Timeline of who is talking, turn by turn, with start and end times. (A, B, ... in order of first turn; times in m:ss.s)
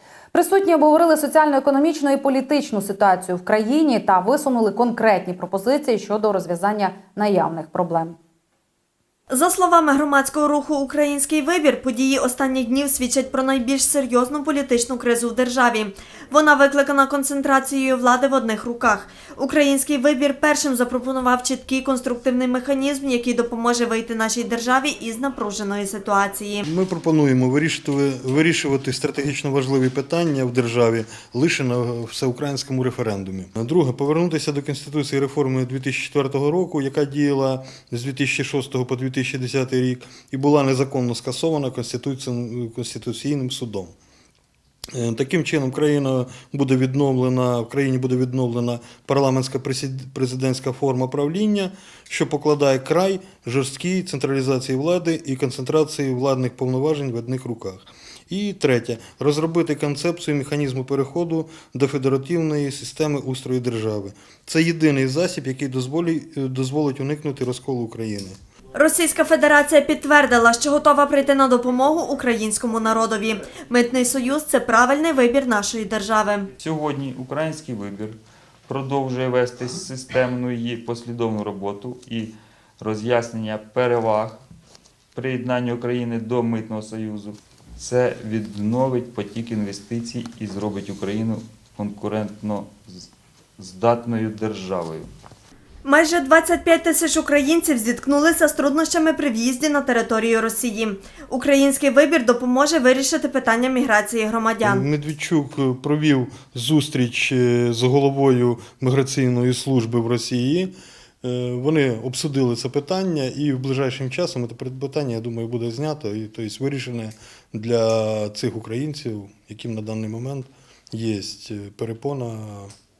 0:00.3-0:08.2 A
0:09.3-0:26.6 B
0:26.6-0:43.9 C
0:44.9-1:08.4 C
1:08.7-1:16.5 B
1:16.6-1:24.4 D
1:25.1-1:35.1 D
1:35.8-1:44.8 B
1:44.6-2:02.7 C